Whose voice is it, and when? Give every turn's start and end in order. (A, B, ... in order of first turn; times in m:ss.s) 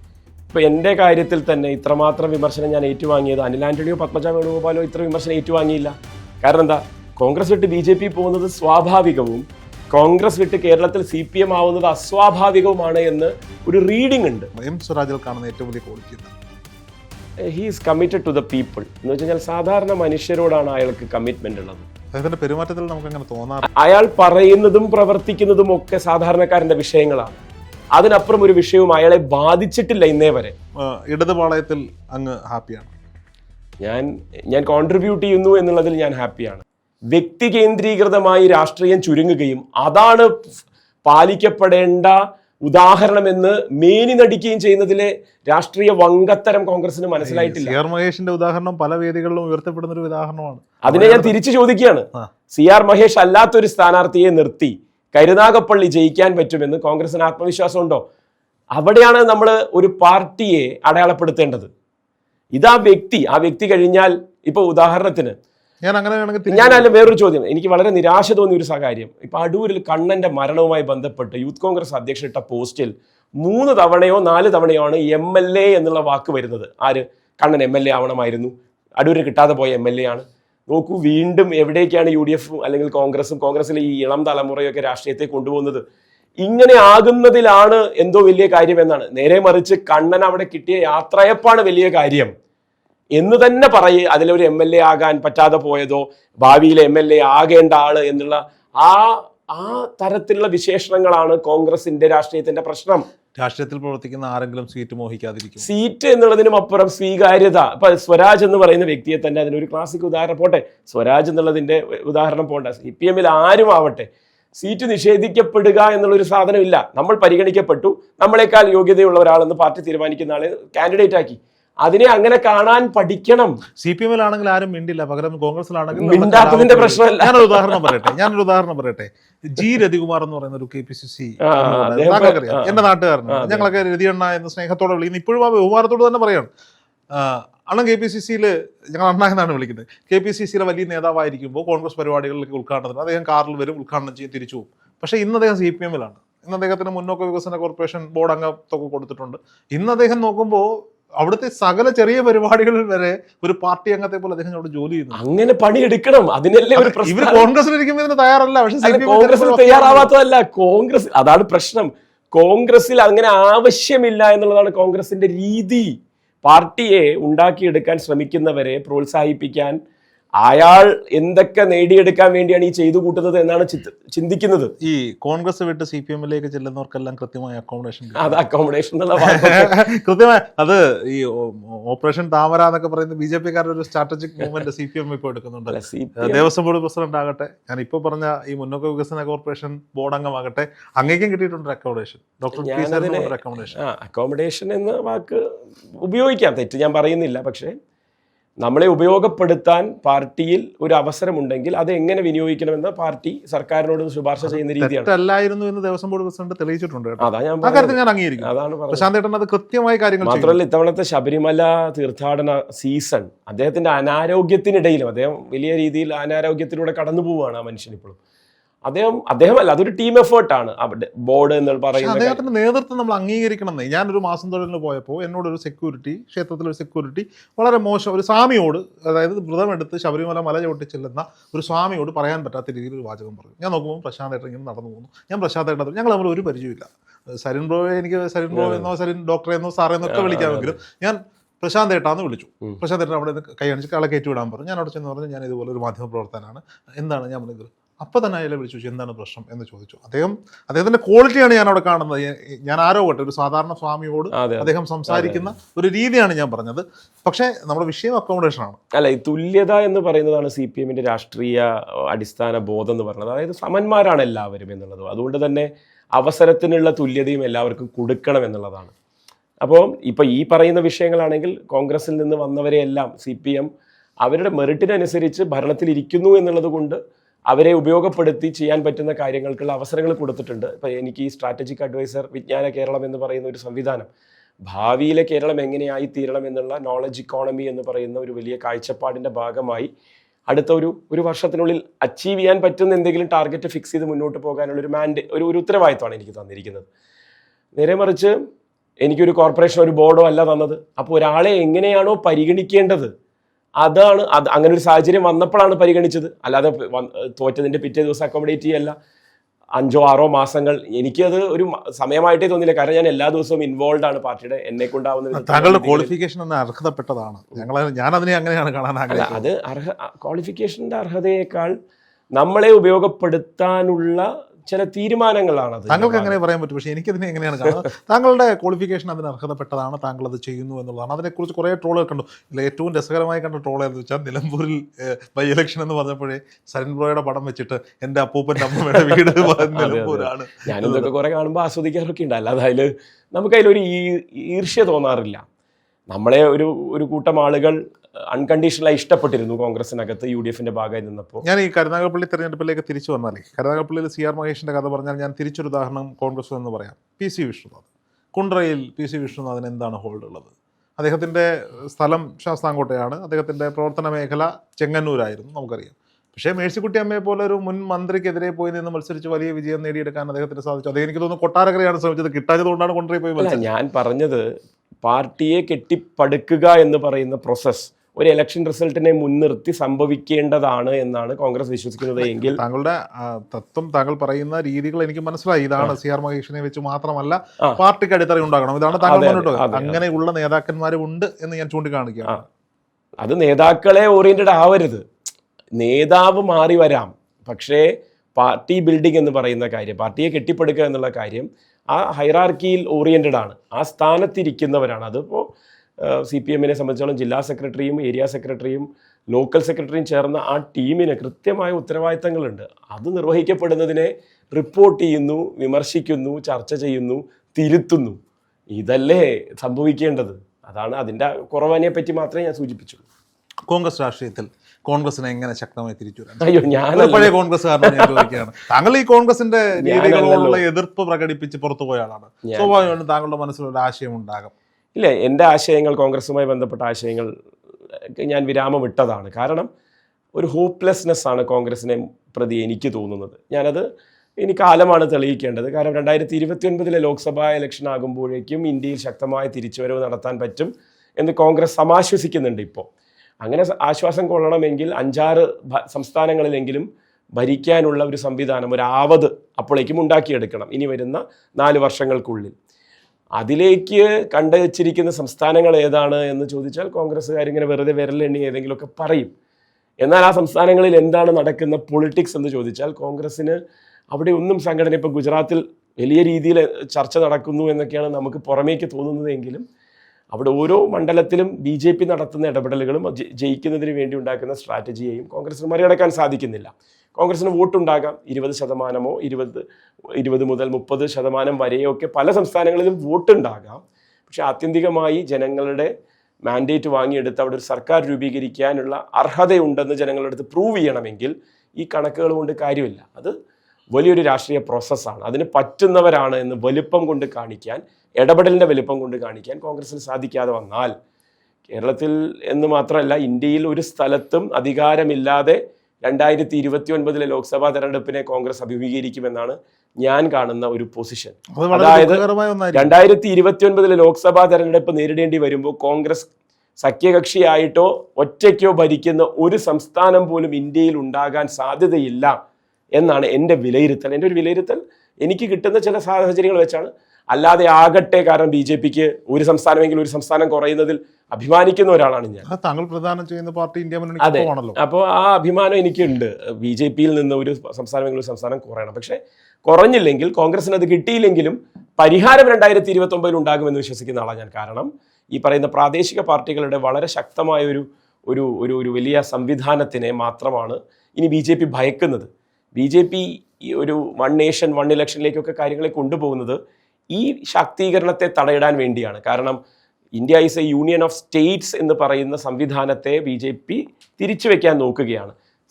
0:00.5-0:14.5 A
0:14.6-0:16.3 B
0:17.4-0:21.8 A
0:22.1-0:23.7 B
0:23.7-0:27.3 A
0:27.9-0:30.5 A
0:30.8-0:32.9 B
0:33.8-0:40.4 A
0:41.0-0:47.7 A
0:47.2-0:51.3 B
0:50.8-0:58.0 A
0:58.7-1:01.7 A
1:02.5-1:05.3 A
1:05.8-1:07.0 B
1:06.5-1:25.8 A
1:26.4-1:32.3 A
1:33.2-1:43.0 A
1:43.4-1:45.7 B
1:45.6-2:03.6 A
2:03.8-2:16.5 B
2:05.9-2:08.1 A
2:11.4-2:12.8 A
2:13.3-2:13.7 A
2:17.1-2:30.7 B
2:31.2-2:35.2 B
2:35.2-2:37.5 A
2:36.8-2:40.1 B
2:38.8-2:45.9 A
2:46.4-2:49.8 A
2:50.4-2:54.7 A
2:54.8-2:58.4 B
2:58.2-2:59.7 A
2:59.2-3:13.8 B
3:05.7-3:06.5 A
3:12.6-3:15.4 A
3:16.0-3:17.7 A
3:18.6-3:25.1 A
3:24.4-3:30.6 B
3:27.2-3:29.1 A
3:30.2-3:38.2 A
3:38.8-3:42.4 A
3:42.0-4:18.8 B
3:58.5-3:58.9 A
4:00.0-4:00.8 A
4:14.3-4:15.5 A
4:18.9-4:28.9 A
4:29.6-4:33.7 A
4:34.2-4:37.0 A
4:37.5-4:44.1 A
4:44.7-4:49.9 A
4:50.5-4:56.9 A
4:57.8-4:58.3 A
4:59.0-5:03.1 A
5:03.8-5:08.9 A
5:09.8-5:16.1 A
5:15.3-5:19.4 B
5:19.1-5:21.7 A
5:22.4-5:26.4 A
5:25.9-5:41.1 B
5:39.0-5:45.4 A
5:46.1-5:47.8 A
5:48.3-5:51.4 A
5:51.4-6:13.7 B
6:13.4-6:14.4 A
6:15.0-6:22.6 A
6:22.2-6:32.4 B
6:29.0-6:30.0 A
6:33.2-6:35.0 A
6:35.8-6:45.5 A
6:46.0-6:58.2 A
6:58.7-7:03.0 A
7:03.7-7:14.5 B
7:06.4-7:08.3 A
7:09.8-7:10.6 A
7:12.4-7:12.8 A
7:14.9-7:17.3 A
7:18.2-7:19.7 A
7:20.3-7:23.8 A
7:24.4-7:32.9 A
7:33.4-7:36.8 A
7:37.4-7:42.5 A
7:43.4-7:49.3 A
7:50.0-7:53.6 A
7:54.1-7:59.6 A
8:00.3-8:09.6 A
8:10.2-8:15.9 A
8:16.4-8:23.3 A
8:23.9-8:30.9 A
8:31.7-8:42.2 A
8:41.5-8:42.9 B
8:42.7-8:46.3 A
8:46.8-8:52.4 A
8:53.0-9:02.4 A
9:02.4-9:04.8 B
9:04.2-9:26.6 A
9:27.1-9:29.6 A
9:30.2-9:35.3 A